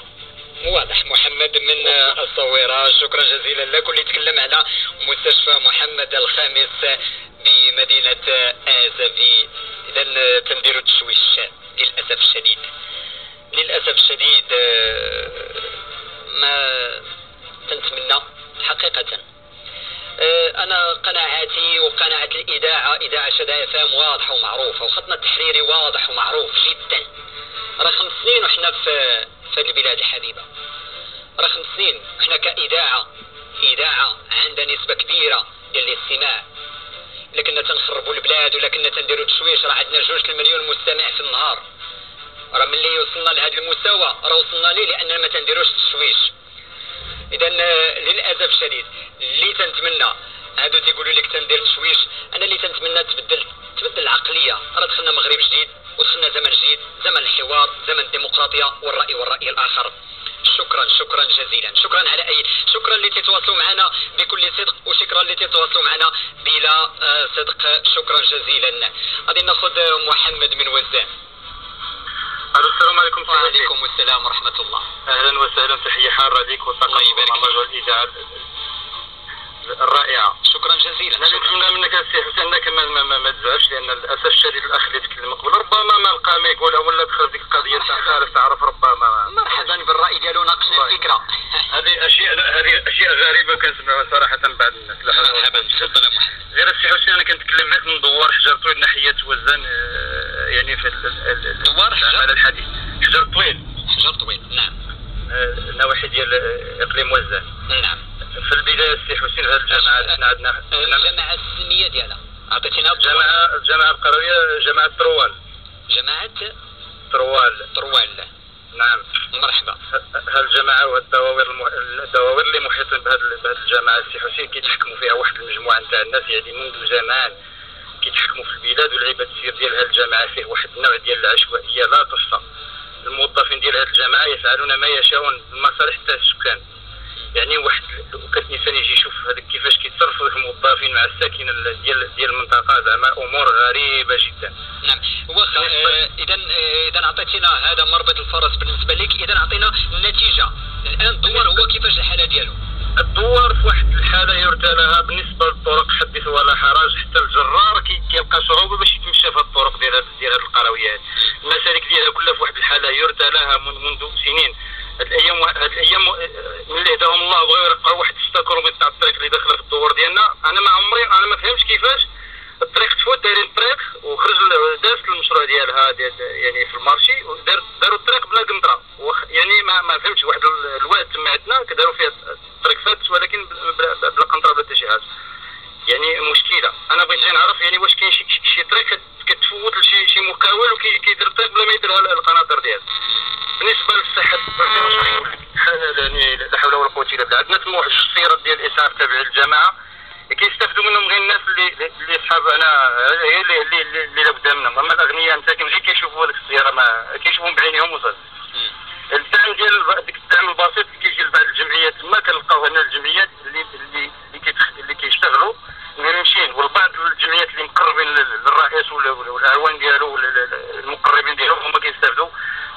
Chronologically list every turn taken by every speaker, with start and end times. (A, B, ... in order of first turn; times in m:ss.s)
0:00.6-0:12.7 A
0:13.5-0:17.1 A
0:17.7-0:19.2 A
0:20.2-0:27.1 A
0:27.8-0:30.5 A
0:31.4-0:33.1 A
0:33.6-0:36.4 A
0:37.3-0:41.6 A
0:42.5-0:46.3 A
0:47.3-1:11.1 A
1:12.5-1:13.7 B
1:13.3-1:14.9 A
1:15.1-1:18.3 B
1:16.9-1:17.6 A
1:19.7-1:20.4 B
1:20.4-1:21.5 A
1:21.2-1:29.7 B
1:27.7-1:28.0 A
1:29.3-1:31.6 A
1:30.7-1:31.0 B
1:31.7-1:35.9 B
1:35.1-1:36.5 A
1:36.5-1:43.6 B
1:41.6-1:42.3 A
1:43.9-1:44.8 A
1:45.3-1:47.5 B
1:47.7-1:48.0 A
1:48.4-1:51.1 B
1:49.7-1:50.2 A
1:50.7-1:53.4 A
1:53.0-1:55.4 B
1:55.9-1:56.5 A
1:57.1-1:57.7 B
1:57.7-1:58.3 A
1:58.7-1:59.1 B
1:59.3-1:59.8 A
1:59.9-2:07.3 B
2:08.0-2:12.4 B
2:13.0-2:16.6 B
2:17.3-2:24.5 B
2:24.8-2:32.6 A
2:25.6-2:26.0 B
2:31.3-2:31.6 B
2:33.0-2:52.1 B
2:52.6-3:05.0 B
3:05.9-3:12.8 B
3:13.6-3:19.7 B
3:20.3-3:28.2 B
3:29.1-3:42.3 B